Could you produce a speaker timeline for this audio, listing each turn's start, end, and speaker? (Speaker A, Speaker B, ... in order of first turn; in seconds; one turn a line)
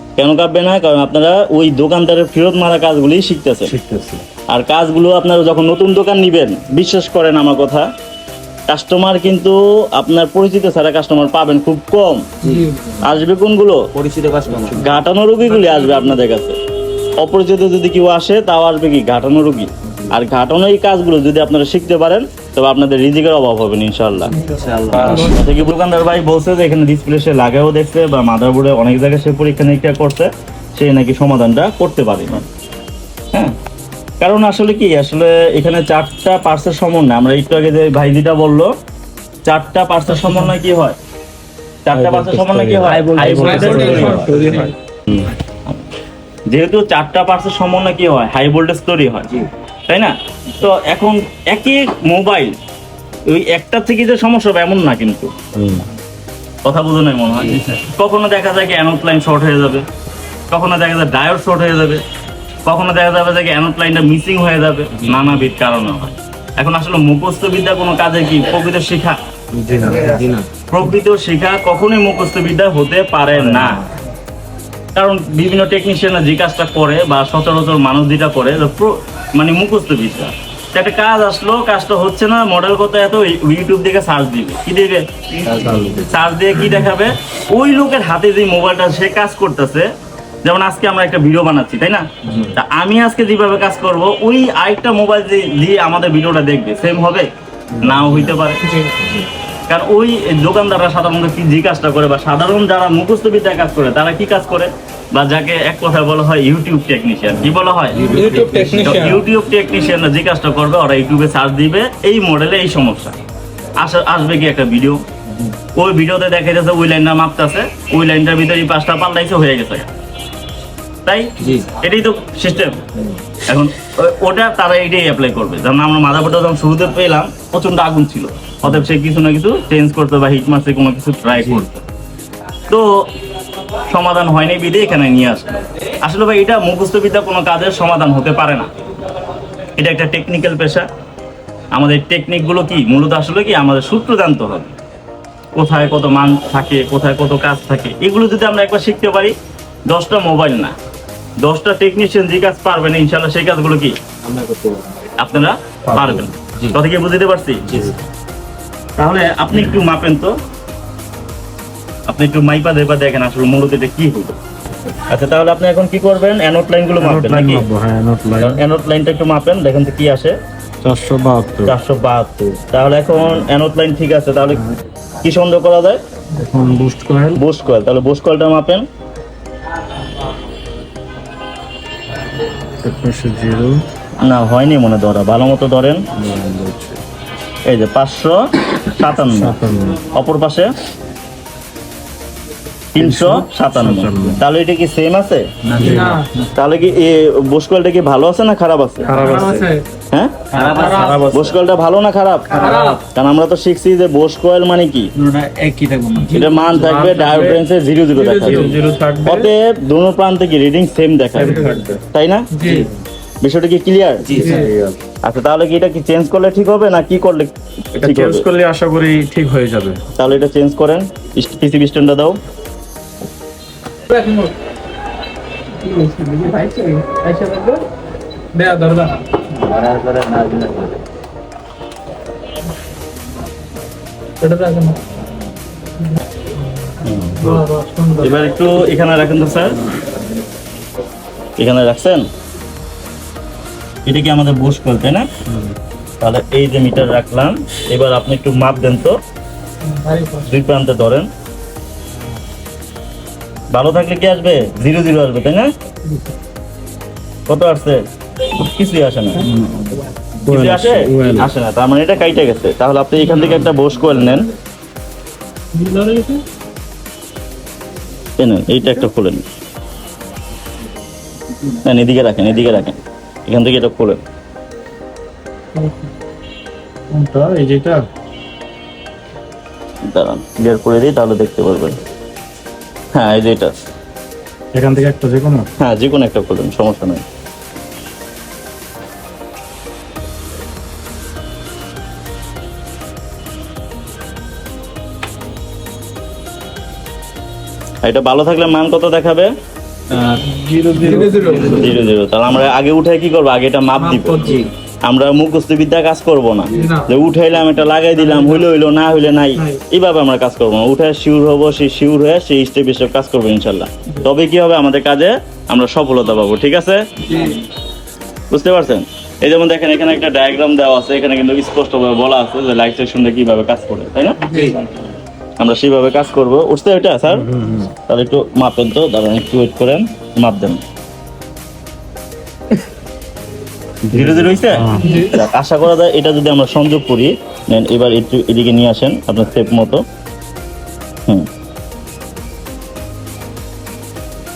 Speaker A: 0.2-3.7
Speaker B: 3.6-4.2
Speaker A: 4.5-7.8
Speaker A: 8.7-12.2
Speaker C: 12.4-12.7
Speaker D: 12.4-12.8
Speaker A: 13.0-13.8
Speaker C: 13.9-15.0
Speaker A: 14.7-16.6
Speaker D: 15.6-16.0
Speaker A: 17.2-24.3
Speaker D: 24.4-25.4
Speaker C: 24.4-25.4
Speaker A: 25.0-32.4
Speaker A: 34.2-38.7
Speaker A: 39.5-41.0
Speaker A: 41.9-44.3
Speaker B: 41.9-45.3
Speaker C: 42.8-44.7
Speaker D: 43.3-44.7
Speaker A: 46.5-49.3
Speaker A: 49.9-52.5
Speaker A: 53.3-55.3
Speaker B: 55.5-55.8
Speaker A: 56.6-59.8
Speaker C: 57.3-57.8
Speaker A: 60.5-62.0
Speaker A: 62.6-69.2
Speaker C: 65.0-65.5
Speaker B: 69.5-70.2
Speaker C: 69.9-70.5
Speaker A: 70.7-73.8
Speaker B: 73.3-73.7
Speaker A: 74.9-85.0
Speaker C: 85.4-86.0
Speaker B: 85.5-86.0
Speaker A: 86.0-89.9
Speaker A: 90.4-97.3
Speaker A: 97.8-98.6
Speaker C: 97.9-98.4
Speaker D: 98.6-98.9
Speaker A: 99.7-113.1
Speaker C: 108.0-108.9
Speaker D: 108.0-109.2
Speaker B: 108.1-108.6
Speaker A: 113.8-115.0
Speaker A: 115.8-119.9
Speaker A: 121.0-122.8
Speaker C: 121.4-121.7
Speaker A: 123.4-131.8
Speaker C: 131.4-131.6
Speaker A: 133.9-138.7
Speaker A: 139.8-140.9
Speaker A: 141.7-144.7
Speaker A: 145.6-149.3
Speaker A: 149.9-150.7
Speaker A: 151.4-153.9
Speaker C: 154.2-155.0
Speaker A: 155.2-157.7
Speaker C: 155.9-156.8
Speaker C: 157.7-157.9
Speaker A: 159.0-160.3
Speaker A: 162.1-164.3
Speaker A: 165.1-167.7
Speaker B: 167.0-168.6
Speaker A: 168.4-170.3
Speaker B: 170.8-171.7
Speaker A: 171.6-174.7
Speaker A: 175.2-176.0
Speaker B: 176.4-177.4
Speaker A: 177.3-178.8
Speaker B: 182.8-183.8
Speaker A: 184.2-186.0
Speaker B: 186.2-187.0
Speaker A: 187.7-189.5
Speaker B: 189.2-190.0
Speaker A: 190.1-190.7
Speaker A: 192.9-195.4
Speaker B: 193.0-194.4
Speaker B: 195.7-196.2
Speaker C: 195.7-196.4
Speaker D: 195.8-196.3
Speaker A: 196.5-199.1
Speaker B: 199.1-199.7
Speaker D: 199.1-199.8
Speaker A: 200.1-205.1
Speaker C: 200.5-201.3
Speaker B: 200.5-201.4
Speaker D: 200.6-201.4
Speaker D: 202.5-203.0
Speaker C: 205.1-206.6
Speaker D: 206.2-207.6
Speaker A: 206.3-212.5
Speaker B: 206.7-207.6
Speaker D: 208.1-208.8
Speaker B: 208.4-209.5
Speaker B: 211.3-212.0
Speaker D: 212.5-212.9
Speaker C: 212.6-212.9
Speaker A: 213.4-214.3
Speaker C: 214.2-214.6
Speaker B: 214.3-215.0
Speaker D: 214.3-214.7
Speaker A: 215.2-218.4
Speaker B: 218.0-220.0
Speaker A: 220.2-222.4
Speaker D: 224.1-224.5
Speaker D: 225.8-227.8
Speaker D: 228.5-229.2
Speaker C: 229.5-231.0
Speaker D: 234.4-235.0
Speaker D: 236.8-238.3
Speaker A: 237.0-237.6
Speaker A: 238.2-239.8
Speaker A: 241.6-242.2
Speaker A: 244.1-245.3
Speaker A: 246.2-249.2
Speaker D: 249.8-250.5
Speaker A: 250.4-251.3
Speaker A: 253.7-255.7
Speaker A: 257.5-259.5
Speaker B: 260.4-261.5
Speaker A: 260.5-264.5
Speaker D: 265.7-266.4
Speaker A: 268.4-269.4
Speaker A: 271.8-274.2
Speaker D: 275.7-276.1
Speaker B: 277.1-278.0
Speaker A: 280.1-282.0
Speaker A: 283.1-283.7
Speaker B: 284.7-285.7
Speaker A: 285.8-287.2
Speaker A: 298.0-299.5
Speaker C: 300.1-300.4
Speaker B: 300.8-301.6
Speaker D: 300.9-301.9
Speaker C: 301.0-301.9
Speaker A: 301.6-304.5
Speaker D: 304.0-304.6
Speaker C: 304.4-304.7
Speaker A: 305.1-317.1
Speaker D: 306.7-307.1
Speaker D: 308.1-308.6
Speaker D: 309.6-309.8
Speaker D: 317.2-317.6
Speaker A: 318.5-324.4
Speaker D: 324.4-324.8
Speaker A: 325.6-327.5
Speaker B: 327.3-327.9
Speaker A: 328.1-330.8
Speaker B: 334.1-335.2
Speaker A: 334.1-340.0
Speaker D: 335.0-335.4